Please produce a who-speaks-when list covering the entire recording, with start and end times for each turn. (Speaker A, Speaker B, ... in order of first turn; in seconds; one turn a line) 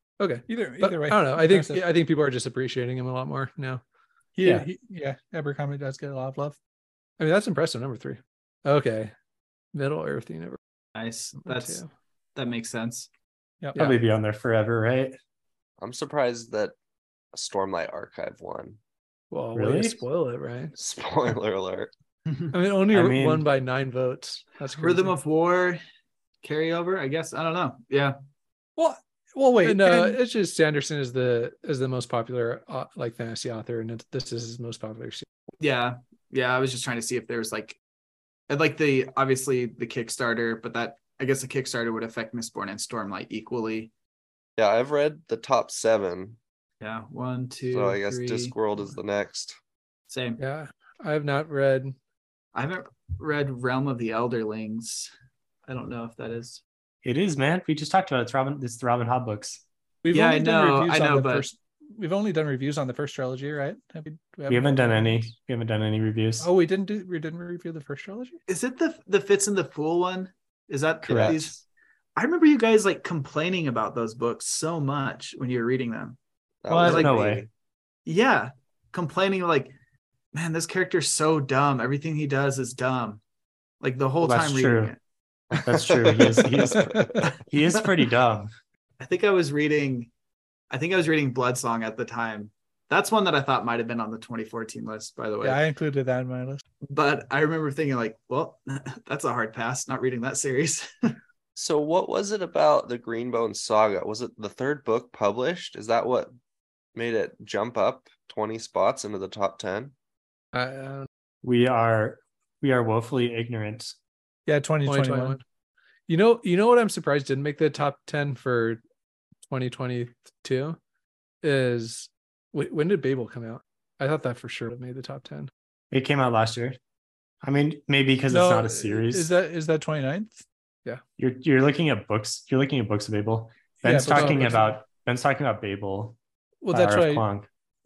Speaker A: 0.2-3.8
Speaker B: 0.5-1.8
Speaker B: 4.4-6.6
Speaker A: 7.2-9.1
Speaker A: 9.7-10.6
Speaker C: 10.9-11.8
Speaker A: 11.4-11.9
Speaker C: 12.3-13.1
Speaker B: 13.6-13.9
Speaker D: 13.8-15.2
Speaker E: 15.8-16.8
Speaker E: 17.3-18.8
Speaker A: 19.3-20.8
Speaker D: 19.6-20.0
Speaker E: 20.8-21.9
Speaker A: 22.5-25.2
Speaker D: 22.9-23.5
Speaker C: 24.8-25.8
Speaker C: 26.4-28.2
Speaker B: 28.8-30.2
Speaker A: 29.6-35.3
Speaker C: 35.6-37.8
Speaker C: 38.5-43.9
Speaker E: 44.6-46.4
Speaker C: 46.8-48.6
Speaker E: 47.7-49.6
Speaker C: 50.1-50.4
Speaker A: 50.4-52.0
Speaker C: 52.5-55.1
Speaker C: 55.7-56.6
Speaker D: 57.0-59.6
Speaker B: 60.0-65.3
Speaker C: 60.1-61.5
Speaker D: 64.5-66.5
Speaker B: 66.4-68.4
Speaker C: 68.5-71.6
Speaker D: 71.0-71.4
Speaker E: 71.1-71.5
Speaker C: 72.2-76.2
Speaker E: 76.6-77.5
Speaker D: 76.7-77.5
Speaker C: 76.8-77.2
Speaker C: 78.1-79.7
Speaker C: 80.3-83.2
Speaker C: 83.8-85.0
Speaker D: 84.2-84.9
Speaker D: 85.5-88.5
Speaker B: 86.9-87.3
Speaker C: 89.0-90.1
Speaker C: 90.7-95.6
Speaker B: 95.4-96.6
Speaker C: 96.8-101.2
Speaker E: 101.6-106.3
Speaker E: 107.0-109.9
Speaker A: 110.5-111.1
Speaker D: 111.4-114.0
Speaker B: 114.5-115.4
Speaker A: 114.9-115.4
Speaker A: 116.1-118.8
Speaker A: 119.5-120.8
Speaker A: 121.4-125.5
Speaker D: 125.9-126.8
Speaker D: 127.4-129.3
Speaker B: 128.3-130.4
Speaker D: 131.2-136.2
Speaker B: 133.8-134.7
Speaker A: 134.2-134.6
Speaker B: 136.6-137.3
Speaker D: 136.7-137.5